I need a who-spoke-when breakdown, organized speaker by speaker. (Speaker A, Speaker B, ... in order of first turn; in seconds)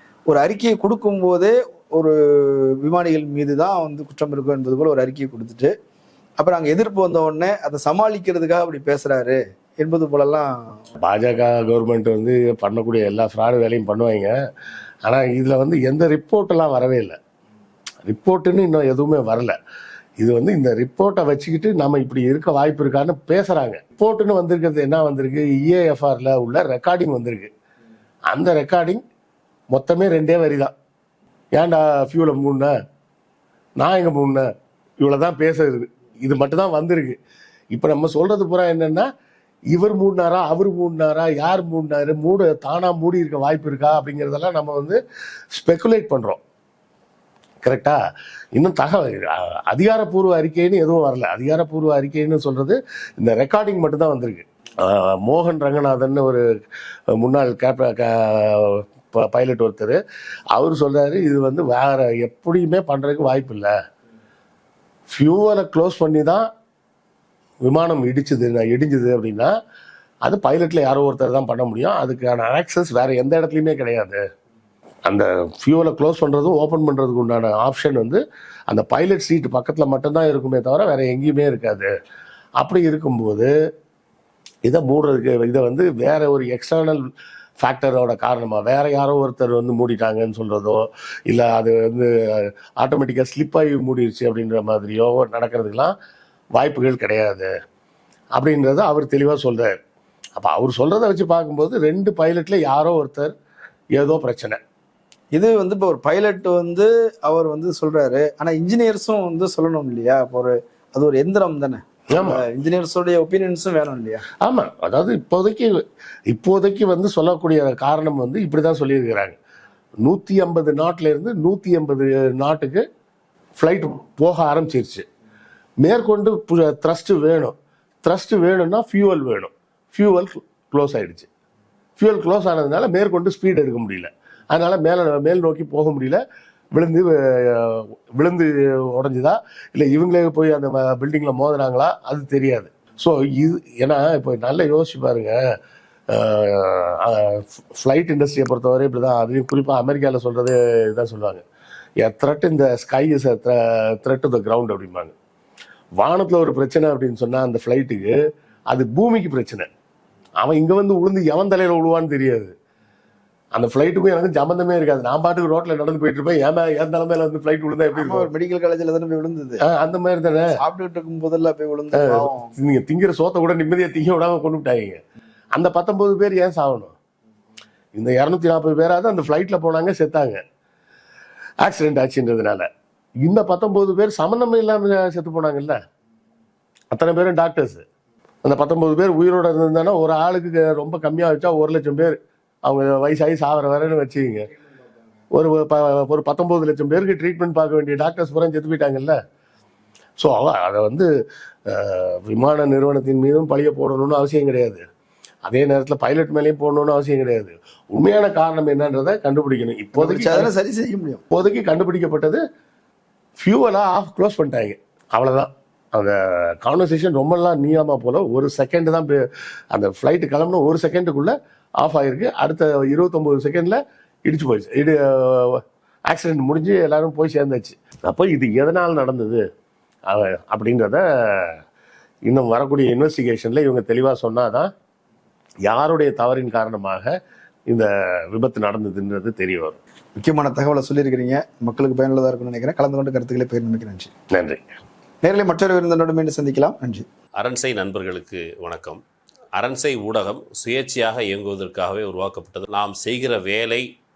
Speaker A: 0.3-5.7, 6.4-10.6, 105.3-114.2, 167.9-169.6, 170.6-172.5, 209.9-211.2, 240.2-244.1, 245.2-247.1
Speaker B: 11.0-14.3, 15.1-17.2, 18.0-19.6, 20.2-27.5, 28.3-29.0, 29.7-30.7, 31.5-32.7, 33.8-34.5, 35.0-37.2, 37.7-39.1, 39.7-45.0, 45.5-46.4, 47.6-48.0, 48.5-56.4, 57.1-60.0, 60.5-63.7, 65.1-66.5, 67.6-69.5, 70.3-74.2, 75.1-81.9, 82.6-83.5, 84.7-87.0, 87.6-95.9, 96.6-97.5, 98.4-99.8, 100.4-103.3, 104.0-104.6, 112.1-112.4, 114.4-115.7, 116.3-119.4, 120.0-122.8, 123.6-125.0, 125.8-131.3, 132.0-136.2, 136.7-145.4, 146.1-151.4, 152.0-155.1, 156.0-158.1, 158.7-159.7, 160.4-162.5, 163.5-168.3, 169.6-170.5, 171.9-175.0, 175.5-176.9, 177.9-180.4, 181.6-182.7, 183.2-185.8, 186.9-187.8, 188.4-194.5, 195.3-199.2, 200.2-201.1, 201.7-204.8, 205.4-210.5, 211.3-212.4, 213.4-219.2, 219.7-229.4, 230.1-231.6, 232.3-234.7, 235.7-237.1, 237.7-239.8, 244.3-244.6
Speaker C: 247.4-249.0, 249.6-253.9